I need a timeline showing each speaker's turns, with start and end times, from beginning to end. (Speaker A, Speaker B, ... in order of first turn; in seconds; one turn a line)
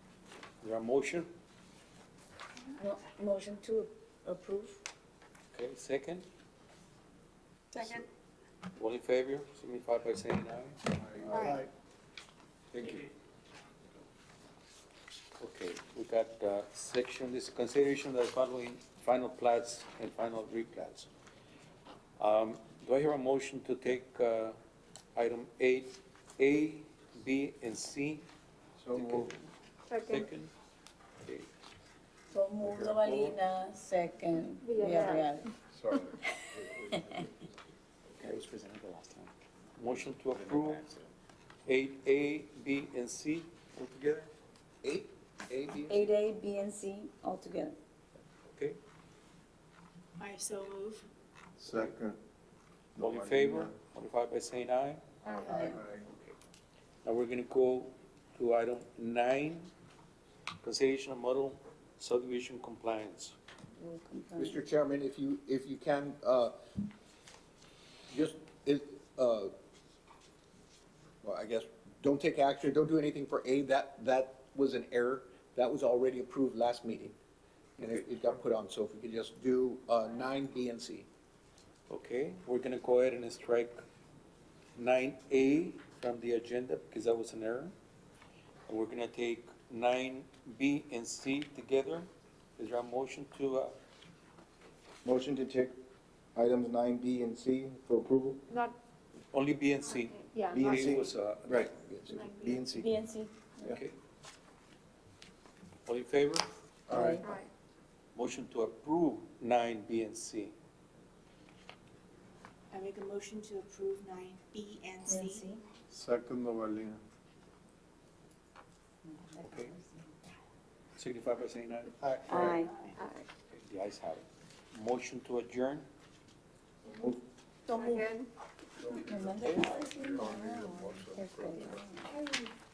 Speaker A: 0.6-1.3
Speaker B: 2.8-4.8
Speaker A: 5.5-6.3
Speaker A: 7.8-8.0
Speaker A: 8.8-10.8
Speaker C: 11.3-11.5
Speaker D: 11.3-11.7
Speaker A: 12.7-13.1
Speaker A: 15.4-21.1
Speaker A: 22.2-24.6
Speaker A: 25.2-28.3
Speaker D: 28.8-29.4
Speaker A: 28.9-29.4
Speaker E: 29.9-30.3
Speaker A: 30.1-30.5
Speaker B: 32.3-35.5
Speaker D: 32.6-33.0
Speaker A: 33.0-33.4
Speaker E: 34.6-35.3
Speaker D: 35.7-36.2
Speaker B: 36.9-37.2
Speaker F: 38.2-39.3
Speaker A: 39.8-40.9
Speaker F: 39.9-41.1
Speaker A: 41.7-43.5
Speaker G: 44.8-46.1
Speaker B: 45.9-47.8
Speaker A: 48.5-48.8
Speaker H: 50.2-51.0
Speaker D: 51.6-52.2
Speaker A: 51.7-52.0
Speaker D: 53.0-53.8
Speaker A: 53.0-55.0
Speaker D: 55.3-56.1
Speaker B: 55.5-55.8
Speaker A: 57.0-59.7
Speaker A: 60.6-63.4
Speaker B: 63.8-64.6
Speaker G: 64.4-66.5
Speaker G: 68.1-69.5
Speaker G: 71.2-77.2
Speaker G: 77.8-81.1
Speaker A: 81.9-83.8
Speaker A: 84.8-87.7
Speaker A: 88.7-93.8
Speaker C: 95.0-95.8
Speaker C: 96.3-98.4
Speaker E: 98.5-98.8
Speaker A: 99.3-101.7
Speaker E: 99.9-101.1
Speaker C: 100.5-102.9
Speaker E: 102.1-102.6
Speaker B: 102.7-103.5
Speaker A: 103.7-104.0
Speaker A: 105.9-106.5
Speaker D: 106.9-107.2
Speaker B: 106.9-107.2
Speaker E: 107.2-107.5
Speaker A: 108.2-110.5
Speaker H: 112.7-115.6
Speaker B: 115.1-115.6
Speaker D: 115.9-117.0
Speaker B: 119.0-120.1
Speaker A: 119.4-119.7
Speaker A: 121.0-122.6
Speaker B: 122.3-122.7
Speaker E: 123.0-123.3
Speaker A: 123.5-125.9
Speaker B: 127.7-128.0
Speaker E: 127.7-128.3
Speaker D: 128.8-131.7
Speaker B: 128.9-132.1
Speaker A: 129.4-129.7